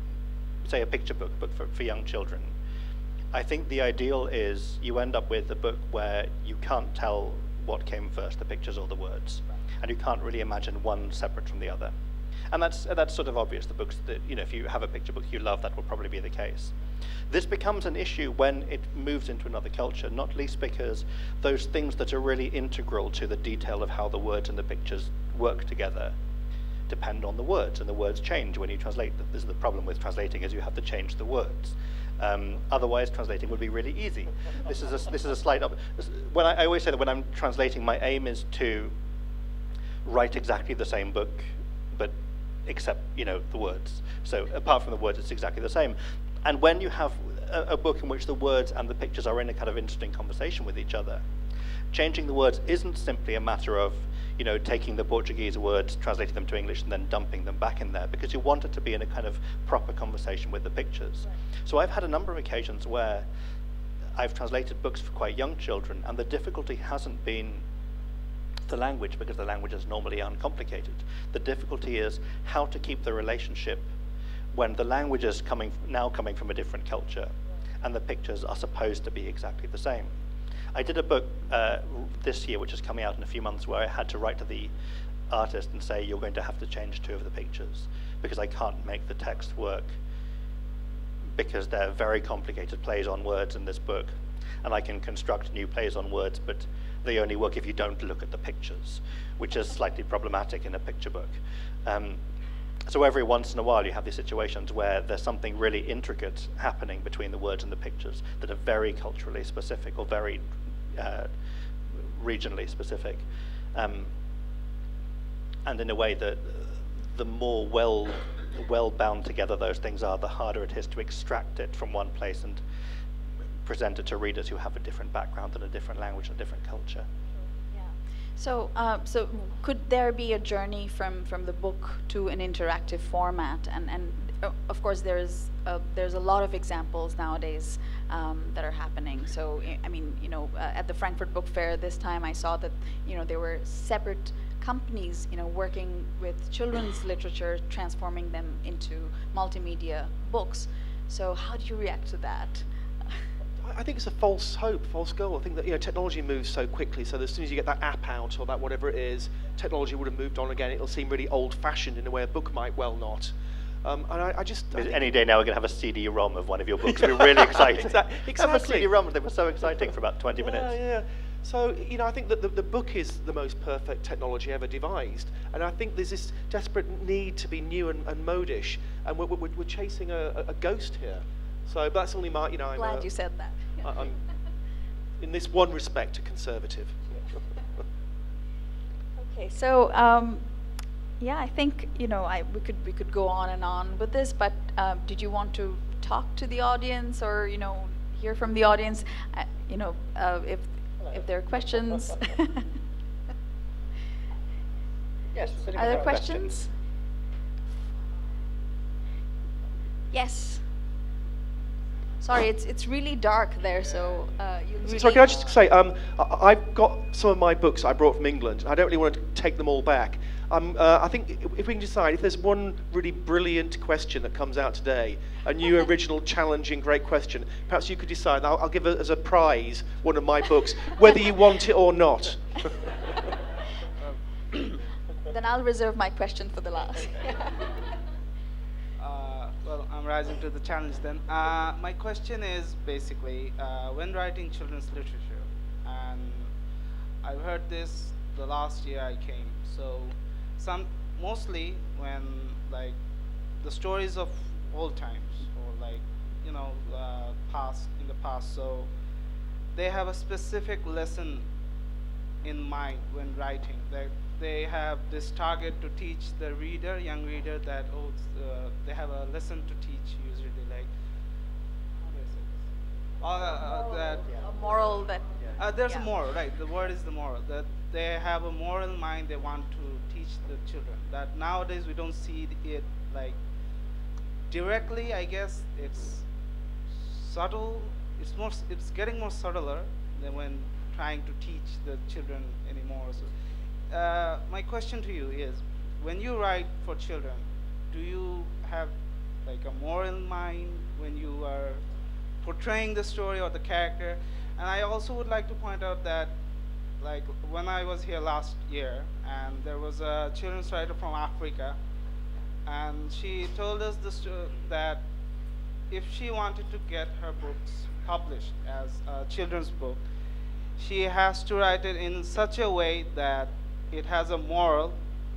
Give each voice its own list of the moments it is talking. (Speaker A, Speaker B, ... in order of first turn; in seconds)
Speaker A: 0.7-2.5, 3.3-11.9, 12.5-16.8, 17.3-26.1, 26.9-38.9, 40.0-42.1, 42.7-51.2, 51.9-63.3, 64.2-67.6, 68.7-73.9, 74.5-80.1, 80.7-84.7, 85.3-90.0, 91.3-102.2, 102.9-111.3, 112.0-114.1, 115.7-122.6, 123.7-127.1, 164.7-170.7, 205.3-206.6
Speaker B: 127.7-153.2, 182.8-183.8, 189.2-190.4, 191.2-202.6, 205.8-206.7, 210.1-210.7, 212.2-215.6, 235.3-237.4, 273.5-275.3
Speaker C: 153.6-165.1, 166.8-168.9, 170.4-183.1, 183.8-184.2, 185.2-187.1, 214.8-232.8
Speaker D: 213.8-214.3, 239.0-246.5, 247.2-253.0, 253.6-258.9, 259.7-261.4, 262.4-270.9, 272.1-272.6, 273.2-274.3, 275.6-283.4, 284.5-286.2, 287.0-293.3, 293.9-298.9, 299.5-301.8, 302.4-306.3, 307.0-311.8, 312.6-315.0, 315.9-320.0, 320.8-325.0